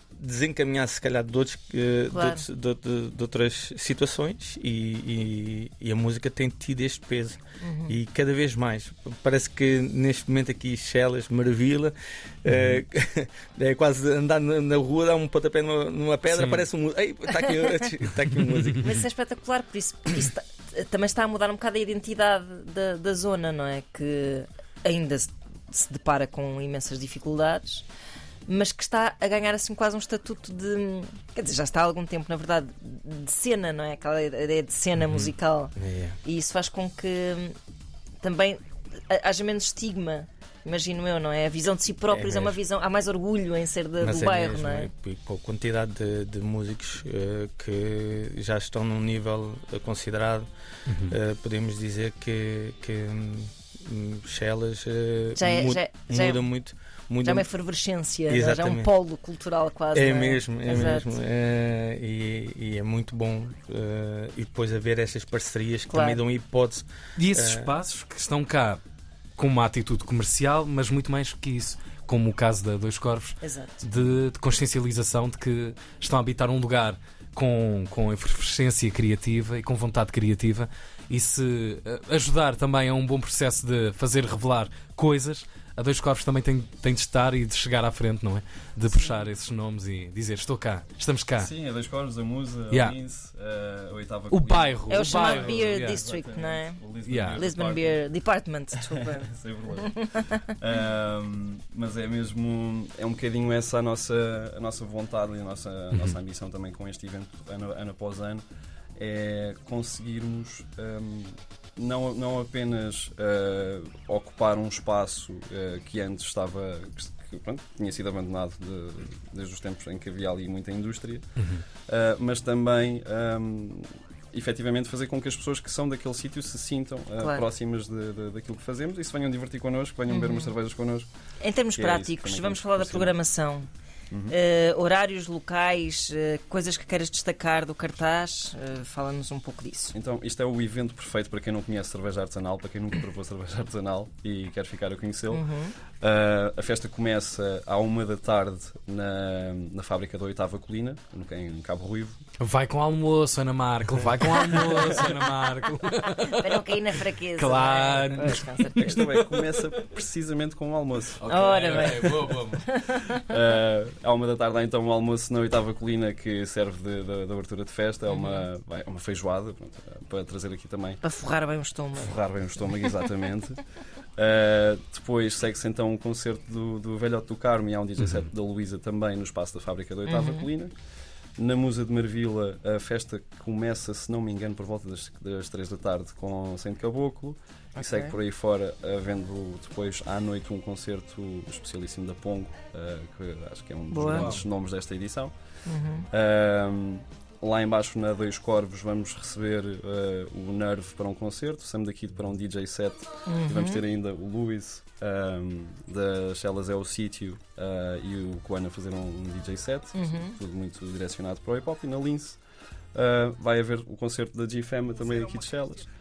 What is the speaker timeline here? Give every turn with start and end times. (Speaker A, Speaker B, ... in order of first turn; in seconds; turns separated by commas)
Speaker A: 0.2-18.9, Speaker B: 2.1-2.4, Speaker B: 7.6-7.9, Speaker C: 12.5-12.8, Speaker C: 16.3-16.6, Speaker B: 18.8-27.9, Speaker B: 28.4-35.7, Speaker A: 35.8-36.2, Speaker B: 36.2-37.5, Speaker B: 38.2-44.9, Speaker A: 42.1-42.6, Speaker A: 44.0-50.5, Speaker C: 50.9-51.1, Speaker A: 51.0-57.5, Speaker B: 55.3-56.5, Speaker B: 57.2-61.2, Speaker A: 58.3-58.9, Speaker A: 59.9-67.7, Speaker B: 65.9-66.2, Speaker C: 67.2-68.8, Speaker C: 69.4-91.5, Speaker B: 73.4-74.0, Speaker B: 88.9-89.3, Speaker D: 91.4-98.0, Speaker C: 94.3-96.0, Speaker B: 94.9-96.8, Speaker C: 97.1-97.4, Speaker B: 97.3-100.4, Speaker D: 98.9-108.4, Speaker D: 109.0-121.2, Speaker D: 121.9-131.1, Speaker B: 127.2-127.5, Speaker B: 130.1-130.5, Speaker B: 131.4-133.7, Speaker D: 131.7-133.1, Speaker B: 134.3-139.9, Speaker D: 139.9-145.4, Speaker B: 145.3-145.7, Speaker D: 146.0-152.2, Speaker C: 152.4-156.6, Speaker B: 156.4-159.0, Speaker C: 157.3-159.0, Speaker D: 158.8-161.2, Speaker C: 161.2-162.6, Speaker B: 161.2-163.2, Speaker D: 163.3-171.0, Speaker B: 168.1-168.4, Speaker B: 171.0-172.2, Speaker D: 172.0-173.6, Speaker D: 174.2-180.7, Speaker B: 180.1-180.5, Speaker D: 181.4-195.3, Speaker B: 187.8-188.1, Speaker B: 193.9-194.4, Speaker B: 195.7-196.1, Speaker D: 196.1-212.4, Speaker B: 203.2-203.8, Speaker B: 209.9-210.4, Speaker D: 212.9-215.9